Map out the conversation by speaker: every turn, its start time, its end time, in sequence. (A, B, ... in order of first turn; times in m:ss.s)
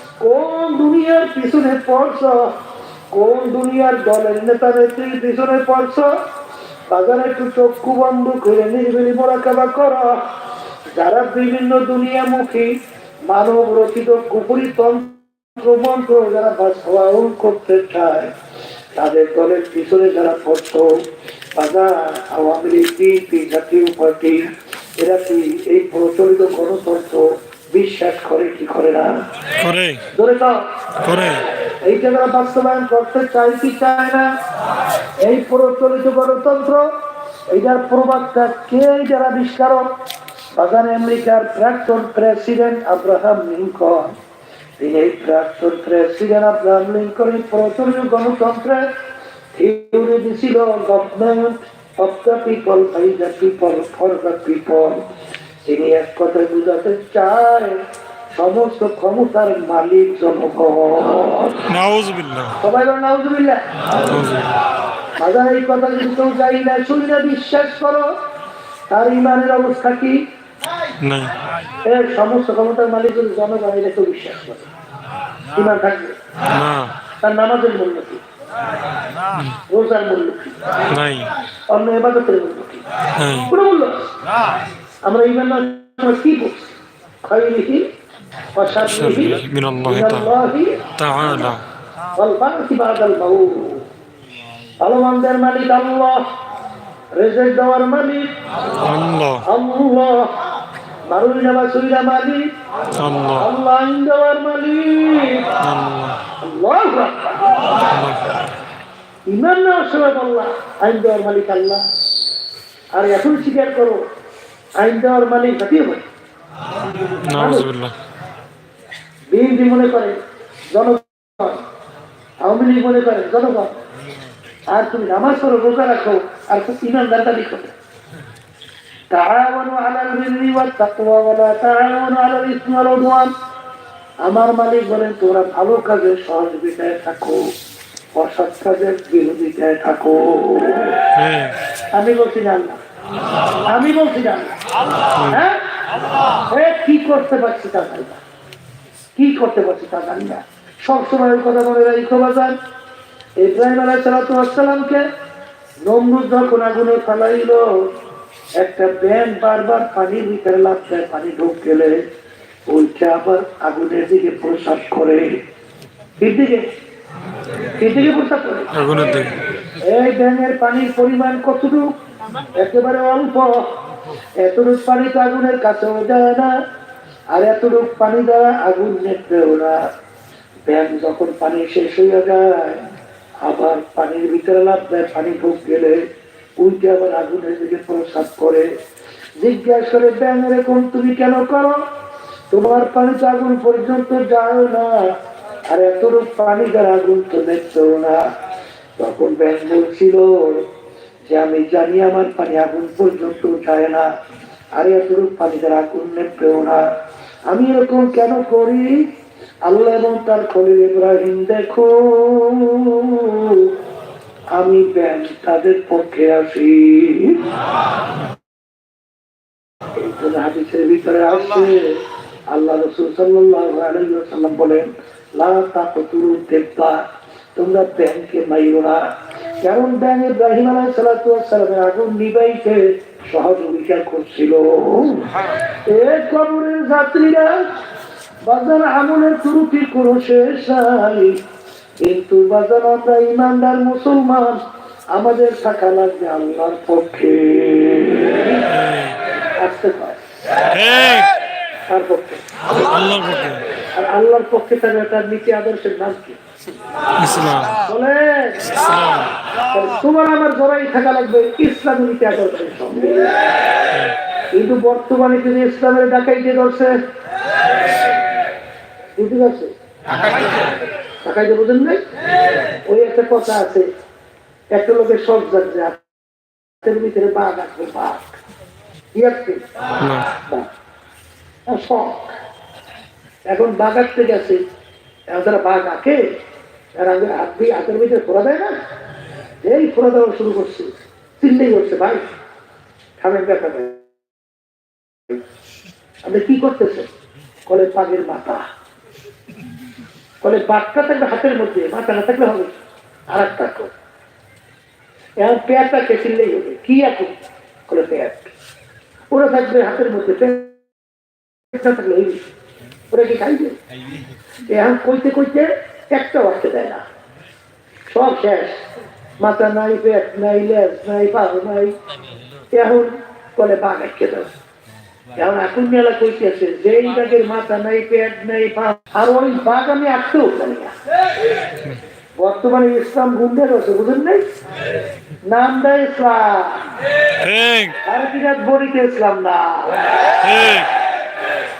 0:00.2-0:02.5 A
0:03.1-0:06.1 A
0:06.9-0:10.2 A
0:10.9-0:12.7 A
0:13.3-0:18.3 A
0:18.9-0:21.0 A
0:21.6-0:29.1 A
0:29.6-0:30.0 B
0:30.1-0:30.6 A
0:31.0-0:31.5 B
0:31.7-0:34.3 A
0:35.2-0:36.9 A
0:37.5-0:39.9 A
0:40.5-0:44.1 A
0:44.8-0:48.9 A
0:49.5-0:55.0 A
0:55.6-1:01.7 A
1:01.7-1:02.6 B
1:02.6-1:03.7 A
1:04.0-1:04.6 B
1:05.2-1:08.1 A
1:08.9-1:10.2 A
1:11.0-1:11.4 B
1:11.8-1:14.7 A
1:15.5-1:16.2 A
1:16.5-1:16.9 B
1:17.2-1:18.2 A
1:19.7-1:20.6 A
1:20.9-1:21.3 B
1:21.7-1:22.8 A
1:23.2-1:23.5 B
1:23.5-1:24.1 A
1:25.0-1:27.8 A
1:28.5-1:30.8 A
1:28.8-1:30.3 B
1:31.0-1:31.6 B
1:32.2-1:33.8 A
1:34.8-1:36.2 A
1:37.2-1:38.3 A
1:38.8-1:39.4 B
1:39.4-1:40.4 A
1:41.1-1:42.5 A
1:43.0-1:43.5 B
1:43.4-1:45.5 A
1:45.6-1:46.2 B
1:46.4-1:47.6 A
1:47.9-1:48.3 B
1:49.3-1:51.8 A
1:52.9-1:54.0 A
1:54.8-1:56.0 A
1:57.2-1:57.9 B
1:57.3-1:57.7 A
1:59.3-2:00.2 A
2:00.7-2:01.6 A
2:02.4-2:03.8 A
2:04.7-2:07.7 A
2:09.1-2:13.3 A
2:14.2-2:17.4 A
2:18.1-2:21.0 A
2:21.1-2:21.6 B
2:21.9-2:22.8 A
2:23.7-2:24.6 A
2:25.1-2:25.4 B
2:25.3-2:25.6 A
2:26.5-2:28.2 A
2:29.2-2:32.6 A
2:33.4-2:35.0 A
2:35.8-2:37.7 A
2:38.6-2:42.0 A
2:42.7-2:45.3 A
2:46.2-2:46.6 A
2:47.8-2:48.7 A
2:48.7-2:49.4 B
2:49.8-2:51.9 A
2:52.6-2:53.7 A
2:54.4-2:56.5 A
2:57.3-2:59.8 A
3:00.7-3:02.8 A
3:03.4-3:06.0 A
3:06.6-3:08.7 A
3:09.4-3:11.8 A
3:12.5-3:15.1 A
3:15.7-3:18.3 A
3:19.0-3:20.6 A
3:21.3-3:24.1 A
3:24.8-3:26.8 A
3:27.5-3:29.1 A
3:29.7-3:33.7 A
3:34.5-3:37.5 A
3:40.0-3:49.1 A
3:49.6-3:55.3 A
3:55.9-3:57.7 A
3:58.4-4:01.4 A
4:02.0-4:04.6 A
4:05.1-4:08.6 A
4:08.7-4:09.2 B
4:09.6-4:10.2 A
4:10.7-4:11.3 B
4:11.9-4:12.5 A
4:12.7-4:13.6 B
4:13.8-4:16.4 A
4:17.2-4:17.8 B
4:17.8-4:18.7 A
4:18.7-4:19.3 B
4:19.7-4:23.4 A
4:24.5-4:27.0 A
4:29.2-4:29.7 A
4:31.2-4:32.0 A
4:32.9-4:33.9 A
4:34.7-4:36.0 A
4:36.8-4:38.4 A
4:39.1-4:39.6 A
4:40.0-4:40.3 B
4:40.4-4:40.7 A
4:41.7-4:42.4 A
4:43.5-4:44.6 A
4:45.3-4:46.3 A
4:47.0-4:48.8 A
4:49.6-4:52.2 A
4:53.2-4:54.0 A
4:56.2-4:57.1 A
4:57.7-4:58.6 A
5:00.4-5:03.9 A
5:05.4-5:07.3 A
5:07.9-5:08.5 A
5:09.3-5:10.8 A
5:11.7-5:12.5 A
5:13.1-5:13.8 A
5:14.7-5:17.0 A
5:18.1-5:18.8 A
5:19.4-5:21.9 A
5:22.7-5:24.5 A
5:25.4-5:30.9 A
5:32.4-5:34.4 A
5:35.5-5:36.8 A
5:37.4-5:38.0 B
5:38.0-5:40.0 A
5:40.4-5:40.9 B